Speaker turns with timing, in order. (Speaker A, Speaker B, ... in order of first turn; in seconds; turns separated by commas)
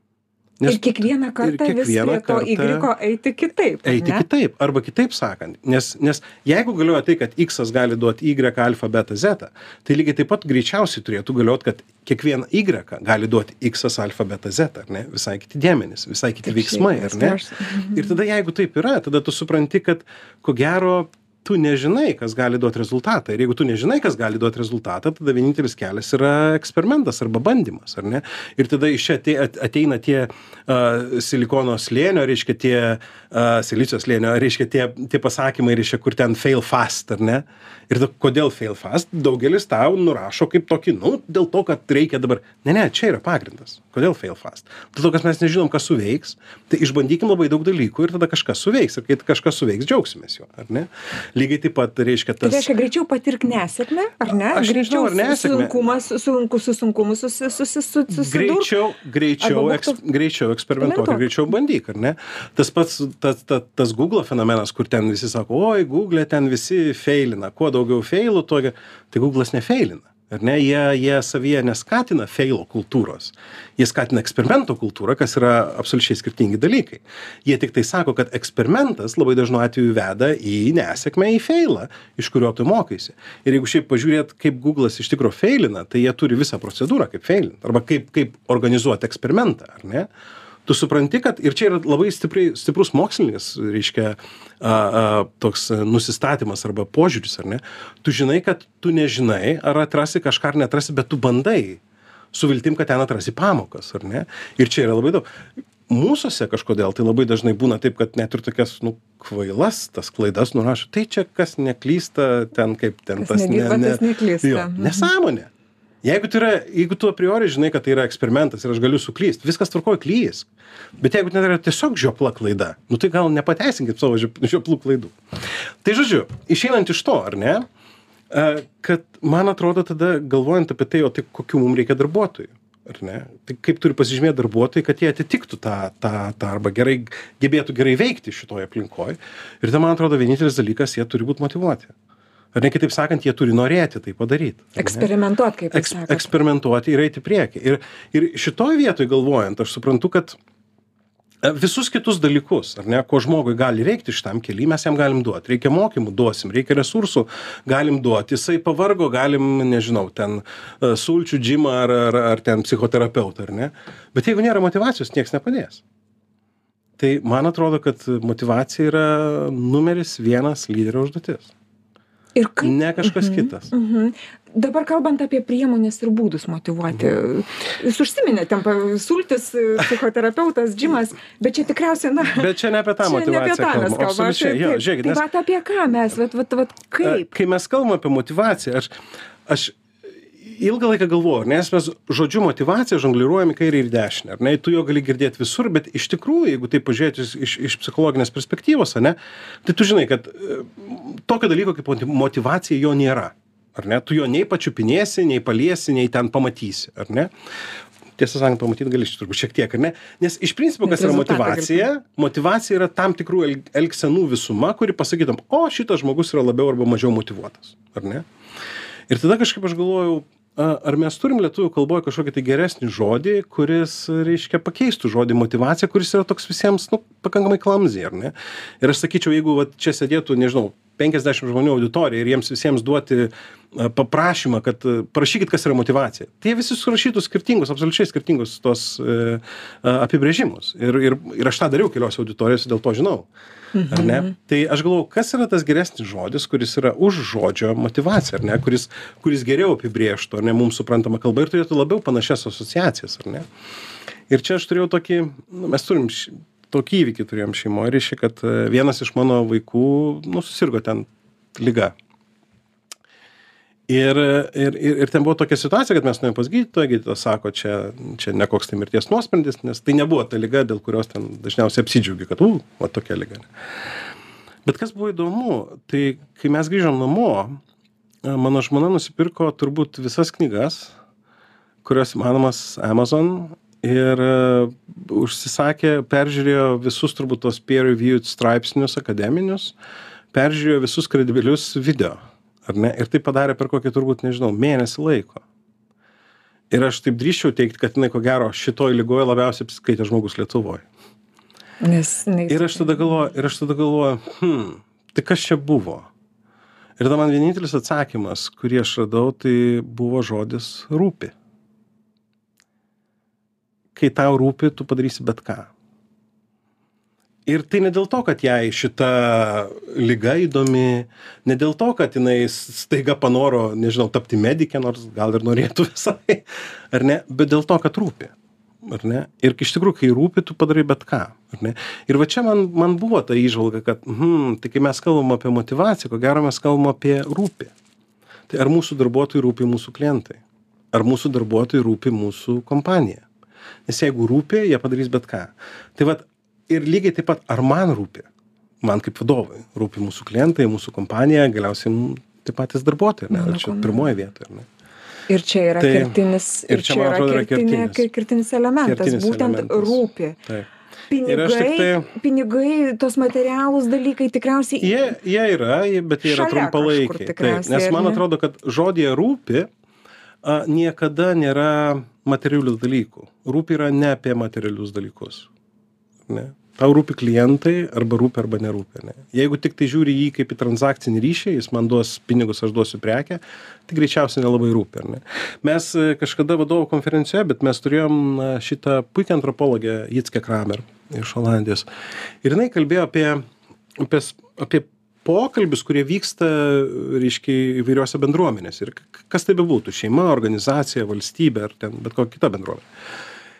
Speaker A: 0.6-2.9, Speaker B: 0.6-4.2, Speaker A: 3.9-17.4, Speaker B: 16.4-18.2, Speaker A: 17.9-52.7, Speaker B: 52.4-58.7, Speaker A: 54.3-56.0, Speaker A: 58.1-90.1, Speaker B: 59.4-60.0, Speaker B: 60.8-61.3, Speaker A: 90.7-101.8, Speaker A: 102.3-105.2, Speaker A: 105.9-115.5, Speaker B: 113.2-115.1, Speaker A: 116.0-120.5, Speaker A: 121.0-125.2, Speaker A: 125.8-127.7, Speaker A: 128.3-141.9, Speaker A: 142.5-145.1, Speaker B: 144.8-146.3, Speaker A: 145.7-150.4, Speaker A: 151.4-165.8, Speaker A: 167.0-171.5, Speaker B: 172.4-182.5, Speaker A: 172.6-173.7, Speaker A: 182.2-185.2, Speaker B: 183.0-187.3, Speaker A: 187.0-188.9, Speaker A: 189.5-189.8, Speaker A: 190.4-207.3, Speaker A: 208.2-218.3, Speaker B: 210.8-211.9, Speaker A: 219.1-243.3, Speaker B: 243.8-244.3, Speaker A: 243.8-253.5, Speaker A: 254.3-261.9, Speaker A: 263.9-273.5, Speaker A: 274.6-277.6, Speaker A: 278.2-280.9, Speaker A: 281.8-289.8, Speaker A: 290.3-295.4, Speaker A: 296.7-300.9, Speaker B: 301.8-303.0, Speaker A: 302.5-306.1, Speaker A: 307.0-311.3, Speaker A: 313.9-315.7, Speaker A: 317.5-337.7, Speaker A: 338.5-340.4, Speaker A: 340.9-343.2, Speaker A: 343.9-348.3, Speaker A: 348.8-354.7, Speaker B: 353.3-354.1, Speaker B: 355.3-360.4, Speaker A: 355.8-356.2, Speaker A: 356.7-358.1, Speaker A: 358.8-360.7, Speaker B: 361.1-365.1, Speaker A: 361.2-362.1, Speaker A: 364.8-369.7, Speaker B: 366.2-368.2, Speaker A: 370.4-375.5, Speaker A: 376.3-391.9, Speaker A: 392.4-393.4, Speaker A: 394.0-402.9